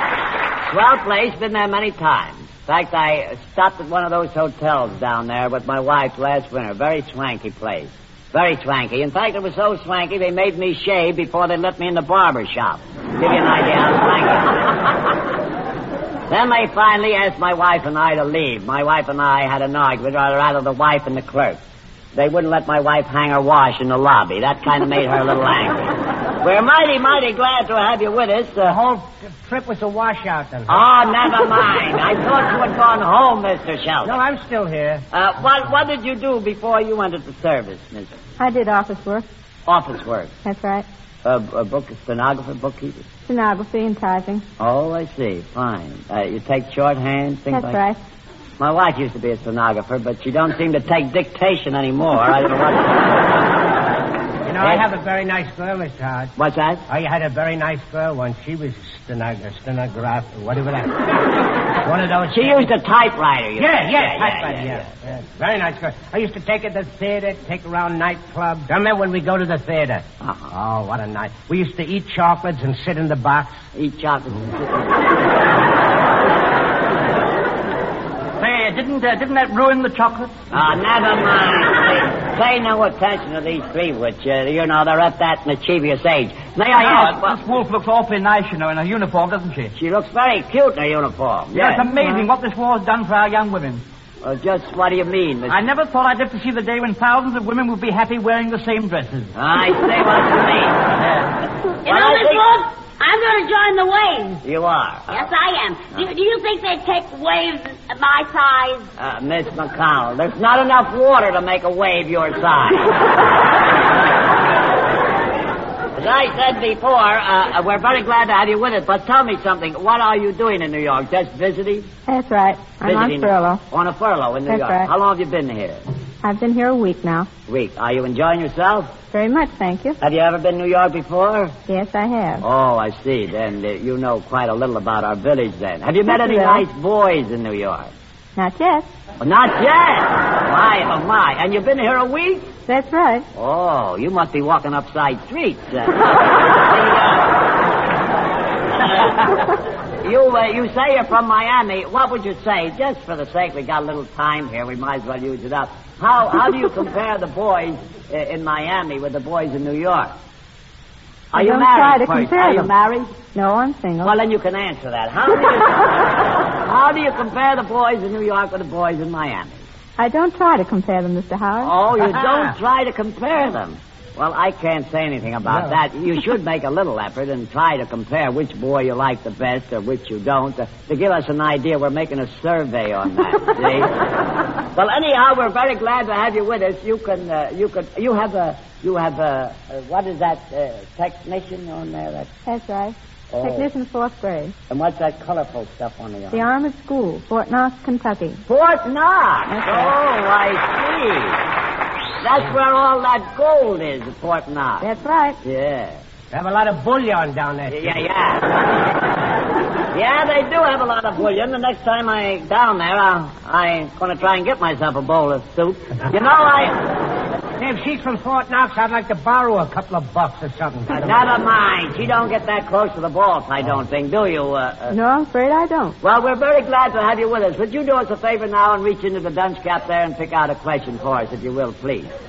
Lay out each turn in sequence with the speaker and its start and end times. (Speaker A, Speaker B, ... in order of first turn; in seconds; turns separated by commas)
Speaker A: 0.7-14.7, Speaker A: 16.3-21.6, Speaker A: 22.1-28.8, Speaker B: 28.6-30.8, Speaker A: 30.7-34.2, Speaker B: 34.0-35.0, Speaker A: 35.1-38.1, Speaker C: 38.4-39.2, Speaker A: 39.7-40.3, Speaker C: 40.4-40.8, Speaker A: 41.2-43.1, Speaker C: 43.2-44.4, Speaker A: 44.6-47.8, Speaker C: 47.5-48.0, Speaker A: 48.6-53.3, Speaker B: 54.5-56.3, Speaker A: 56.4-56.8, Speaker B: 56.9-61.1, Speaker B: 61.8-62.7, Speaker A: 62.3-64.9, Speaker B: 63.6-73.5, Speaker A: 70.2-70.5, Speaker A: 73.7-75.1, Speaker D: 78.4-80.3, Speaker A: 80.5-87.4, Speaker D: 86.7-89.7, Speaker A: 89.7-91.9, Speaker D: 91.5-93.8, Speaker A: 94.2-95.6, Speaker D: 95.5-99.3, Speaker A: 99.3-100.9, Speaker D: 101.0-101.3, Speaker E: 101.8-104.4, Speaker A: 101.8-102.4, Speaker A: 104.4-105.2, Speaker E: 105.1-108.9, Speaker A: 109.0-113.0, Speaker A: 116.0-121.9, Speaker C: 122.1-123.6, Speaker A: 122.8-125.8, Speaker C: 124.5-124.9, Speaker C: 126.2-127.3, Speaker A: 127.5-128.9, Speaker C: 129.1-130.0, Speaker A: 130.0-131.5, Speaker C: 131.7-132.4, Speaker A: 132.4-137.9, Speaker C: 136.1-136.6, Speaker C: 138.4-138.9, Speaker A: 139.2-142.5, Speaker C: 142.7-143.2, Speaker A: 143.3-147.4, Speaker A: 148.7-149.4, Speaker A: 150.0-160.1, Speaker A: 161.3-163.1, Speaker C: 161.3-162.7, Speaker C: 163.3-164.1, Speaker A: 164.0-166.0, Speaker A: 166.6-169.6, Speaker C: 170.0-171.7, Speaker A: 171.6-183.9, Speaker B: 175.5-175.8, Speaker A: 184.7-192.3, Speaker C: 192.5-194.6, Speaker A: 193.3-193.7, Speaker A: 194.7-196.4, Speaker C: 196.3-198.4, Speaker A: 198.5-201.4, Speaker C: 199.5-199.9, Speaker A: 202.2-204.9, Speaker C: 204.8-205.4, Speaker A: 205.4-206.0, Speaker B: 206.3-208.0, Speaker A: 207.7-208.6, Speaker A: 209.9-216.8, Speaker B: 217.6-221.2, Speaker A: 221.0-225.0, Speaker C: 224.9-225.9, Speaker A: 226.0-232.1